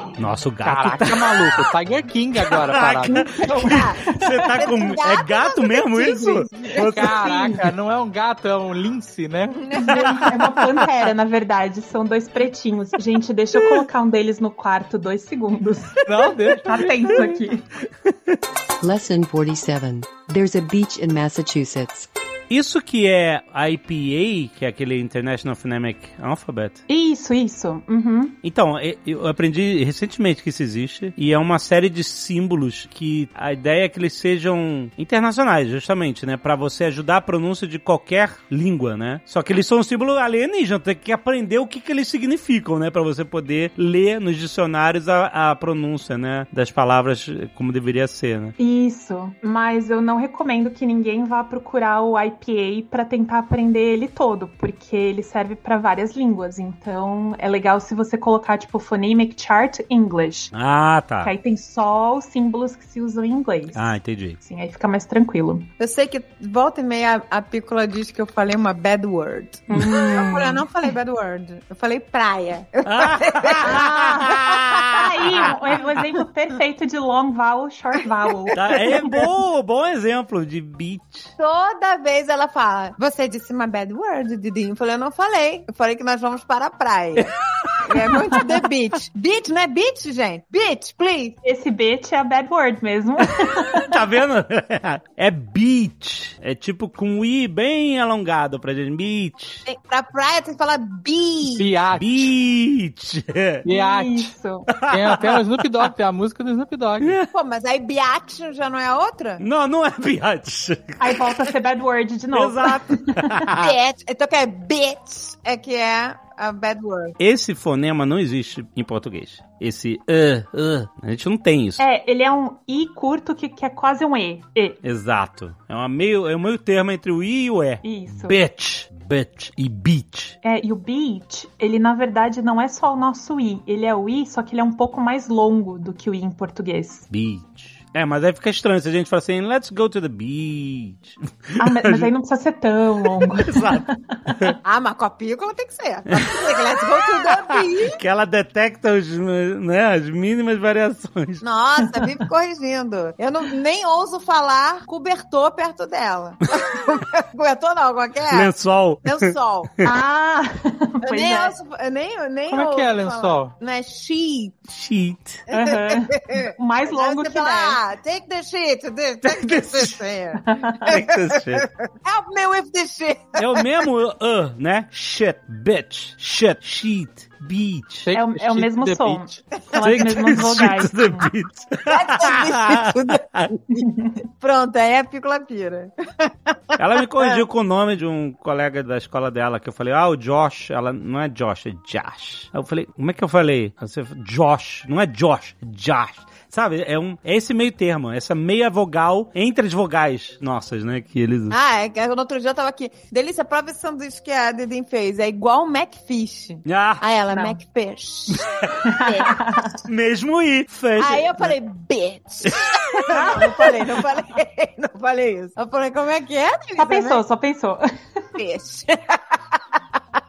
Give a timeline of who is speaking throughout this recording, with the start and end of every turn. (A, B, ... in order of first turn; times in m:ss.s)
0:00.2-0:01.4 A
0:00.6-0:03.3 B
0:02.4-0:07.1 A
0:03.1-0:04.6 C
0:03.4-0:06.9 D
0:06.0-0:07.7 C
0:06.8-0:09.6 B
0:09.5-0:10.0 D
0:09.8-0:17.7 C
0:09.9-0:10.7 A
0:16.1-0:17.3 B
0:18.8-0:22.1 E
0:22.5-0:26.8 A
0:26.9-0:28.4 C
0:28.4-0:48.6 A
0:48.6-1:00.5 C
1:00.5-1:01.3 A
1:01.2-1:05.7 C
1:03.7-1:04.4 A
1:05.8-1:14.9 D
1:09.7-1:10.6 C
1:12.8-1:15.5 A
1:13.6-1:19.1 C
1:18.6-1:21.3 A
1:21.4-1:27.3 D
1:27.8-1:31.4 D
1:31.4-1:34.0 C
1:33.8-1:39.6 A
1:39.7-1:41.7 D
1:41.6-1:42.3 B
1:41.9-1:43.7 A
1:43.6-1:44.3 B
1:43.7-1:44.7 C
1:44.7-1:45.9 A
1:44.9-1:47.2 B
1:47.0-1:47.3 A
1:47.3-1:49.4 D
1:49.4-1:51.5 A
1:51.0-1:53.5 C
1:52.3-1:53.8 A
1:53.5-1:57.2 D
1:57.2-2:01.8 A
2:01.8-2:04.8 C
2:04.8-2:10.4 A
2:07.8-2:08.4 C
2:10.4-2:17.1 C
2:17.1-2:22.1 A
2:21.6-2:24.6 C
2:23.0-2:24.6 A
2:24.6-2:28.0 D
2:26.1-2:26.5 A
2:27.5-2:31.4 A
2:31.4-2:38.5 D
2:38.3-2:39.9 A
2:39.0-2:39.7 D
2:39.8-2:41.5 C
2:41.0-2:44.7 D
2:42.5-2:43.5 B
2:44.7-2:45.4 A
2:45.5-2:47.8 C
2:45.5-2:53.7 D
2:49.2-2:50.0 A
2:50.5-2:50.9 C
2:50.9-2:51.7 A
2:53.4-2:58.1 A
2:58.0-2:59.4 B
2:58.1-3:01.3 C
2:59.6-2:59.9 D
2:59.8-3:03.6 A
3:01.9-3:03.3 D
3:03.8-3:04.2 C
3:04.4-3:06.8 D
3:06.8-3:21.6 A
3:21.5-3:28.5 D
3:26.6-3:27.0 A
3:27.3-3:27.6 C
3:28.3-3:28.8 A
3:28.8-3:29.8 C
3:29.1-3:29.3 D
3:29.8-3:31.6 A
3:31.0-3:37.2 D
3:32.5-3:33.0 A
3:33.1-3:33.8 C
3:36.8-3:37.9 C
3:38.4-3:39.6 D